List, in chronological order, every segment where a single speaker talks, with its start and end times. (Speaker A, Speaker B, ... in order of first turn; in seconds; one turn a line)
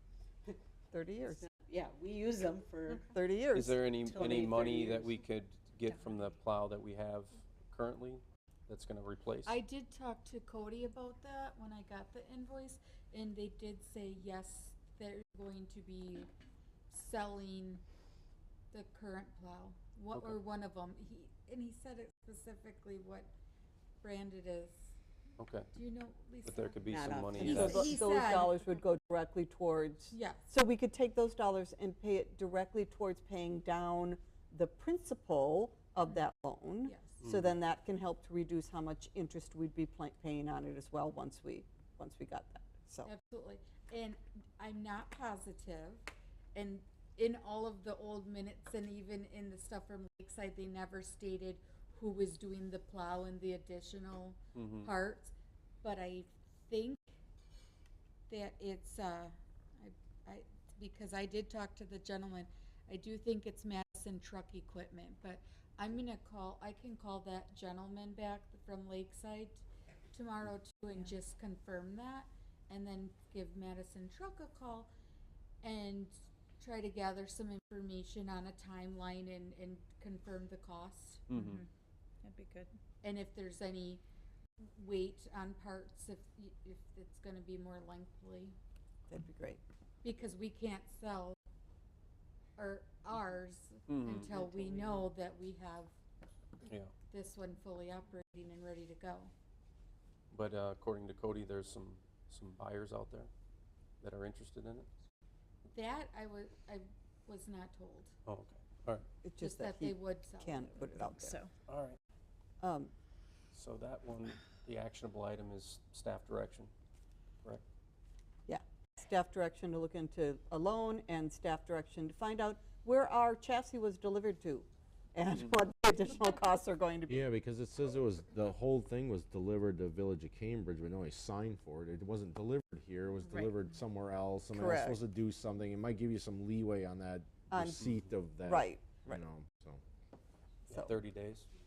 Speaker A: 0.9-1.4
Speaker B: 1.4-3.1
Speaker A: 3.1-3.8
Speaker C: 3.5-9.6
Speaker B: 4.0-5.2
Speaker D: 5.9-6.2
Speaker E: 9.4-16.3
Speaker E: 16.9-17.8
Speaker E: 18.7-23.3
Speaker E: 24.0-24.8
Speaker C: 25.4-25.7
Speaker E: 25.7-26.9
Speaker C: 26.4-28.0
Speaker B: 26.9-27.9
Speaker A: 27.4-43.1
Speaker E: 27.4-28.6
Speaker E: 30.1-30.4
Speaker E: 36.9-37.2
Speaker C: 37.2-37.5
Speaker E: 43.0-57.1
Speaker C: 54.5-54.9
Speaker E: 58.3-74.9
Speaker E: 75.6-81.2
Speaker C: 81.3-81.6
Speaker D: 81.3-81.7
Speaker D: 82.2-82.7
Speaker E: 83.0-84.0
Speaker E: 84.7-88.5
Speaker A: 89.1-89.6
Speaker E: 90.0-91.4
Speaker E: 92.6-95.9
Speaker C: 93.9-94.5
Speaker C: 96.6-96.9
Speaker E: 97.1-99.3
Speaker C: 100.3-103.3
Speaker C: 104.0-104.9
Speaker E: 105.7-108.1
Speaker C: 108.3-109.1
Speaker A: 109.2-111.4
Speaker E: 109.4-111.0
Speaker D: 110.8-111.5
Speaker C: 111.7-112.0
Speaker A: 112.6-112.9
Speaker C: 113.5-116.7
Speaker A: 118.5-127.3
Speaker C: 125.3-125.6
Speaker F: 127.1-139.8
Speaker A: 134.5-135.0
Speaker A: 137.5-137.8
Speaker C: 137.8-138.1
Speaker A: 138.4-139.2
Speaker C: 140.7-141.5